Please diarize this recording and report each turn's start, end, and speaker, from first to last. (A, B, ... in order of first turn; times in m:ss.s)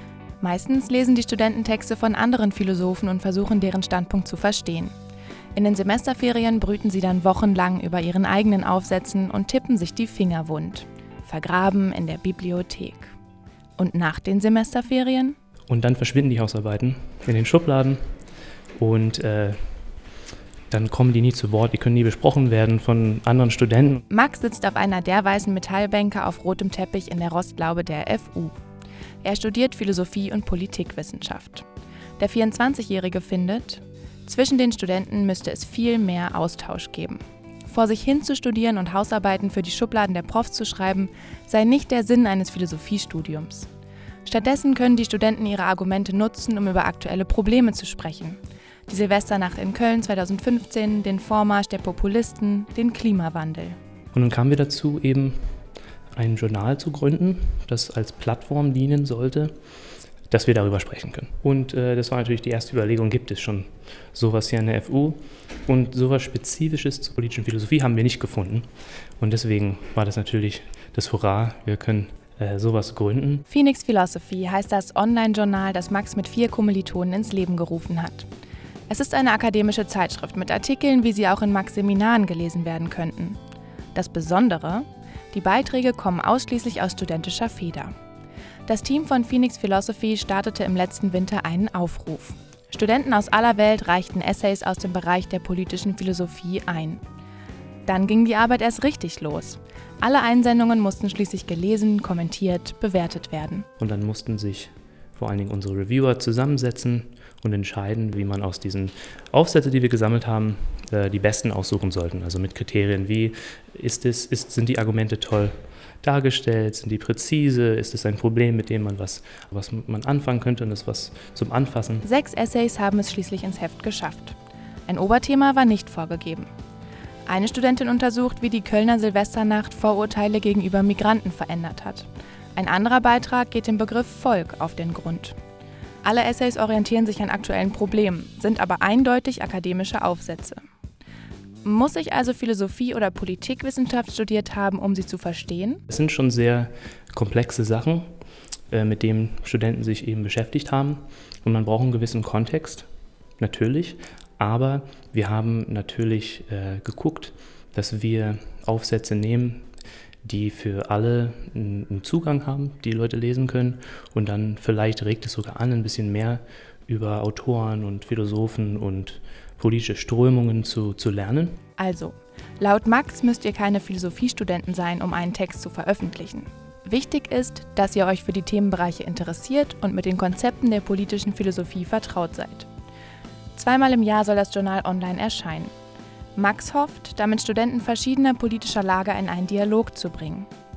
0:00.4-0:04.9 A
0:05.5-0:13.1 A
0:13.8-0:15.4 A
0:15.7-0:18.0 B
0:18.8-0:19.8 B
0:20.7-0:24.0 B
0:24.1-0:28.6 A
0:29.2-0:31.6 A
0:32.2-0:43.7 A
0:44.2-0:53.8 A
0:54.1-0:55.6 B
0:56.2-0:59.5 B
1:00.3-1:08.7 B
1:09.2-1:13.4 B
1:13.5-1:18.3 A
1:18.9-1:23.4 A
1:23.9-1:27.9 A
1:28.7-1:37.0 A
1:37.9-1:43.6 A
1:43.8-2:02.0 B
2:02.0-2:04.4 A
2:04.9-2:06.5 A
2:07.3-2:15.4 A
2:16.0-2:20.6 A
2:21.6-2:25.8 A
2:25.9-2:28.1 B
2:28.7-2:32.8 B
2:33.4-2:39.6 B
2:40.2-2:51.6 B
2:51.8-3:02.7 A
3:03.5-3:05.7 A
3:06.3-3:10.5 A